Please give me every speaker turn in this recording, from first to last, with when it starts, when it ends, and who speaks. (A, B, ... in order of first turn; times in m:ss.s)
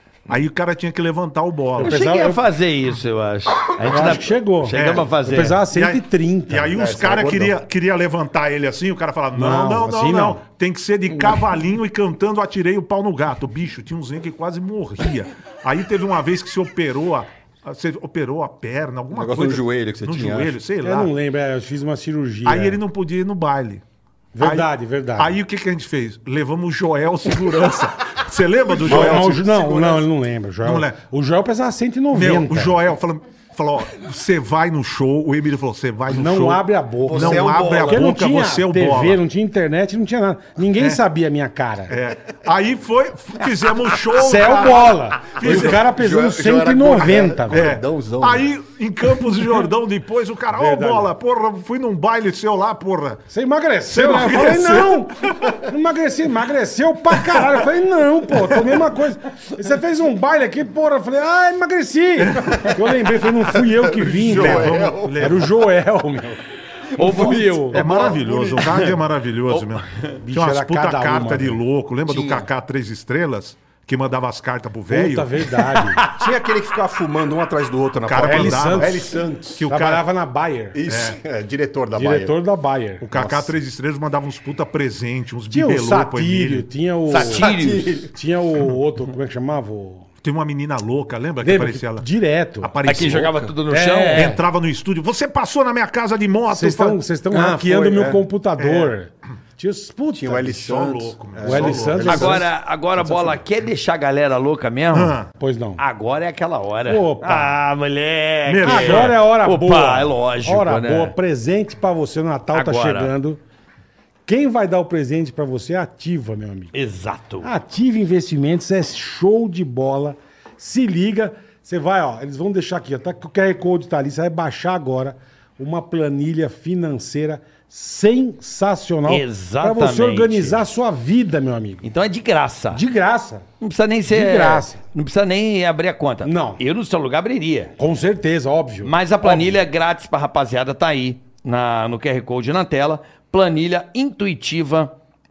0:00.3-0:02.0 A
0:01.8-0:02.4 B
0:01.8-0:05.6 C
0:03.8-0:06.9 B
0:04.7-0:21.1 A
0:06.7-0:07.5 D
0:09.3-0:10.4 B
0:19.1-0:20.6 D
0:20.8-0:22.8 B
0:22.4-0:23.8 A
0:24.4-0:25.4 B
0:24.4-0:29.4 A
0:28.7-0:30.0 D
0:28.8-0:32.8 B
0:30.6-0:31.0 A
0:32.1-0:39.2 A
0:36.1-0:42.0 B
0:37.0-0:38.0 D
0:41.9-0:45.8 A
0:44.1-0:47.7 B
0:45.4-0:48.5 D
0:47.5-0:53.2 A
0:50.5-0:51.1 B
0:53.3-1:06.4 B
0:53.9-0:55.6 A
1:02.2-1:02.8 A
1:03.8-1:05.4 D
1:04.0-1:05.5 A
1:07.0-1:07.8 B
1:07.0-1:07.9 C
1:07.0-1:09.0 D
1:07.7-1:15.5 A
1:09.5-1:10.2 C
1:10.2-1:11.6 B
1:12.1-1:12.5 D
1:14.9-1:16.0 B
1:15.8-1:16.3 C
1:16.1-1:19.6 D
1:18.1-1:20.0 A
1:18.2-1:20.8 B
1:20.7-1:22.3 D
1:20.9-1:21.2 A
1:21.9-1:23.1 B
1:23.0-1:26.7 A
1:23.2-1:23.5 D
1:25.5-1:27.5 B
1:27.1-1:28.0 C
1:27.2-1:28.1 D
1:28.1-1:30.1 B
1:30.2-1:32.1 A
1:31.4-1:33.1 B
1:32.6-1:33.4 A
1:32.8-1:34.3 C
1:33.7-1:34.4 B
1:34.1-1:37.0 A
1:36.5-1:40.8 B
1:37.3-1:38.2 D
1:38.6-1:39.0 A
1:40.1-1:43.4 D
1:40.5-1:42.3 A
1:41.4-1:42.5 B
1:42.1-1:45.2 C
1:44.9-1:45.3 A
1:45.4-1:45.8 B
1:45.8-1:51.1 C
1:46.9-1:47.5 B
1:48.5-1:49.2 A
1:48.6-1:53.4 B
1:52.5-1:53.1 C
1:54.3-1:56.7 B
1:56.7-1:57.5 C
1:57.4-2:11.9 B
2:09.1-2:10.6 C
2:11.8-2:12.8 C
2:12.7-2:13.4 B
2:13.6-2:17.8 C
2:14.1-2:14.8 B
2:16.2-2:16.6 B
2:17.8-2:19.6 B
2:18.8-2:25.0 C